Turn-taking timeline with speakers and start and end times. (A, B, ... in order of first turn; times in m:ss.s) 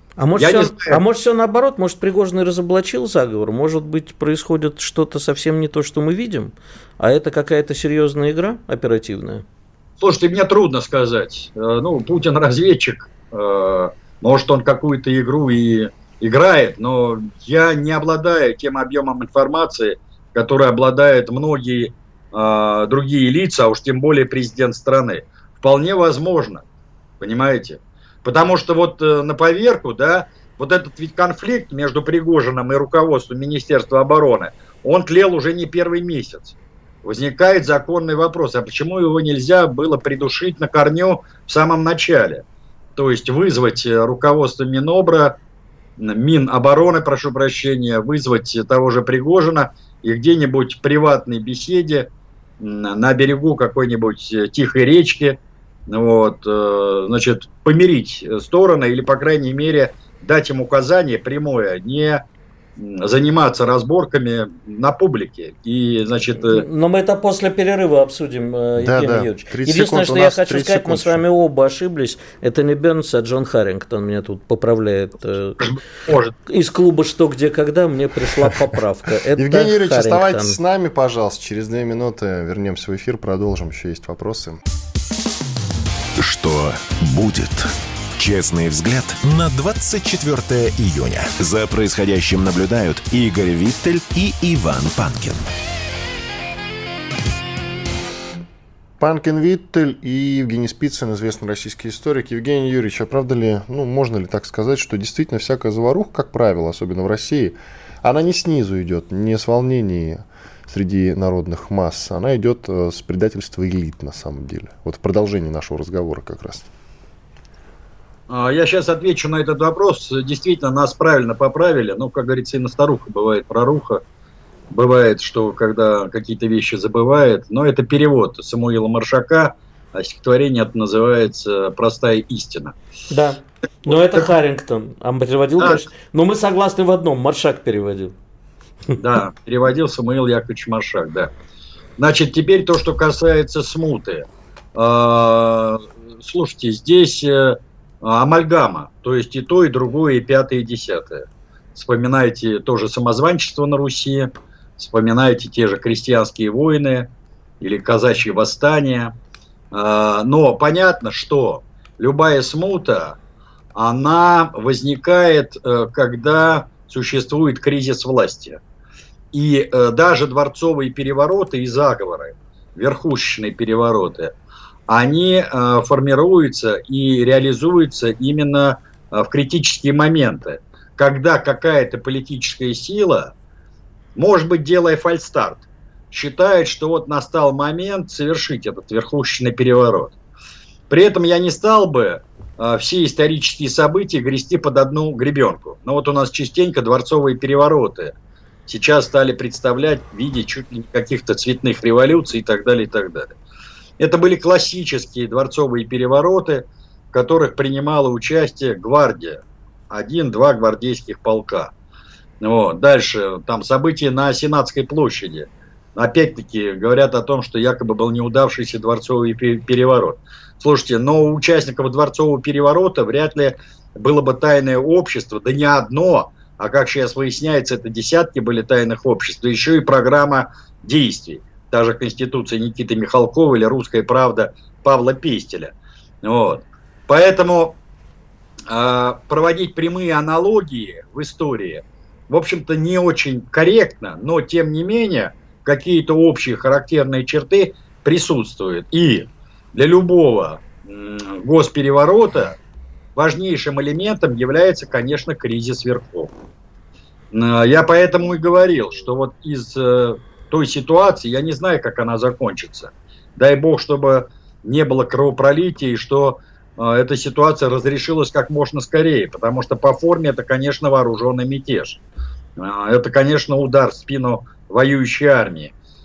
0:00.2-0:09.4 A
0:00.4-0:01.0 B
0:10.0-0:26.6 B
0:27.2-0:42.4 B
0:43.0-0:45.4 B
0:46.0-1:02.2 B
1:02.8-1:06.6 B
1:06.4-1:15.6 A
1:08.8-1:11.2 C
1:15.6-1:16.3 B
1:16.5-1:20.6 A
1:19.4-1:24.6 C
1:26.2-1:35.4 D
1:39.0-1:56.7 C
1:58.3-2:04.0 B
2:04.7-2:12.8 B
2:13.1-2:18.1 A
2:13.9-2:14.2 B
2:15.6-2:15.8 B
2:19.0-2:21.3 B
2:22.0-2:37.1 B
2:37.6-2:39.1 B
2:39.7-2:43.2 B
2:43.7-2:48.6 B
2:49.3-2:54.3 B
2:54.9-3:03.3 B
3:04.2-3:10.2 B
3:10.9-3:18.1 B
3:18.7-3:23.4 B
3:24.0-3:31.7 B
3:32.4-3:57.8 B
3:58.7-4:12.5 B
4:13.1-4:16.3 B
4:17.3-4:32.0 B
4:32.6-4:35.7 B